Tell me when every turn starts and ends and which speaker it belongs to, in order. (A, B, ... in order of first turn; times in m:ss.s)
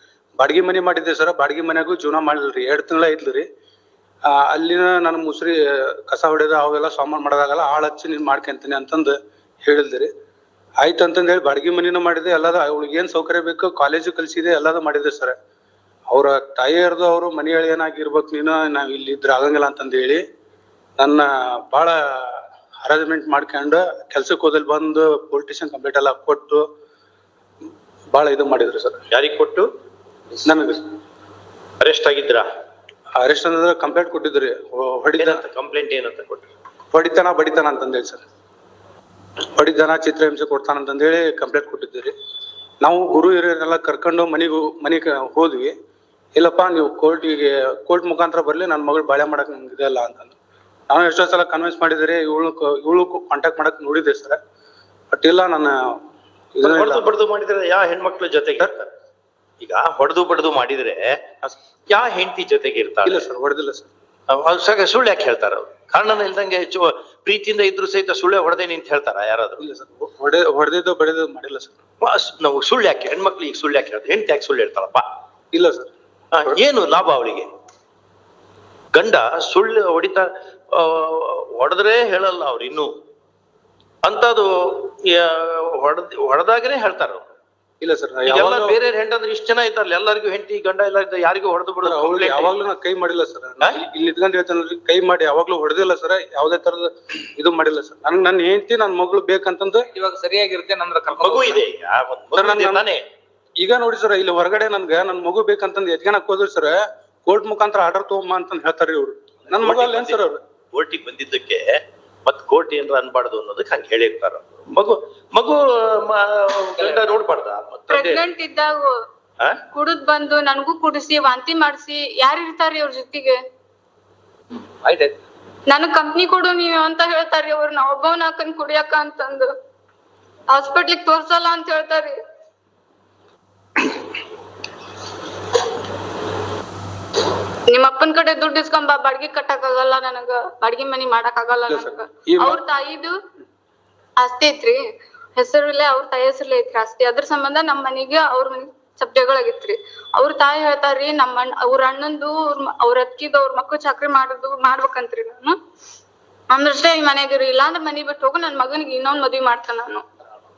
0:00.4-0:03.5 A
0:04.3-0:10.1 A
0:10.8-0:15.4 A
0:16.1-0:20.2 A
0:21.0-0:26.7 A
0:28.1-0:29.0 A
0:29.1-0:29.7 B
0:30.4-0:30.8 A
0:31.8-0:32.5 B
0:33.2-0:35.4 A
0:35.2-0:36.5 B
0:36.9-0:38.2 A
0:39.6-0:42.1 A
0:42.8-0:45.7 A
0:46.4-0:50.4 A
0:50.9-0:54.4 A
0:55.1-0:56.0 A
0:56.6-0:57.1 A
0:56.6-0:58.9 B
0:59.6-1:03.3 B
1:03.0-1:03.9 A
1:04.3-1:09.6 B
1:09.6-1:11.8 A
1:12.0-1:15.0 B
1:15.5-1:15.9 A
1:16.3-1:17.5 B
1:18.9-1:22.9 B
1:24.0-1:27.3 B
1:27.8-1:28.8 A
1:28.3-1:32.6 B
1:31.8-1:39.9 A
1:39.9-1:41.6 C
1:41.1-1:43.0 B
1:42.4-1:42.9 A
1:43.6-1:50.4 A
1:49.5-1:51.7 B
1:52.3-1:58.2 B
1:56.8-1:57.2 C
1:57.9-1:58.9 D
1:59.7-2:03.4 D
2:04.5-2:05.2 C
2:05.7-2:09.5 D
2:10.5-2:12.2 D
2:17.7-2:23.1 D
2:21.7-2:22.6 A
2:24.2-2:24.8 D
2:25.4-2:35.6 D
2:36.5-2:40.0 D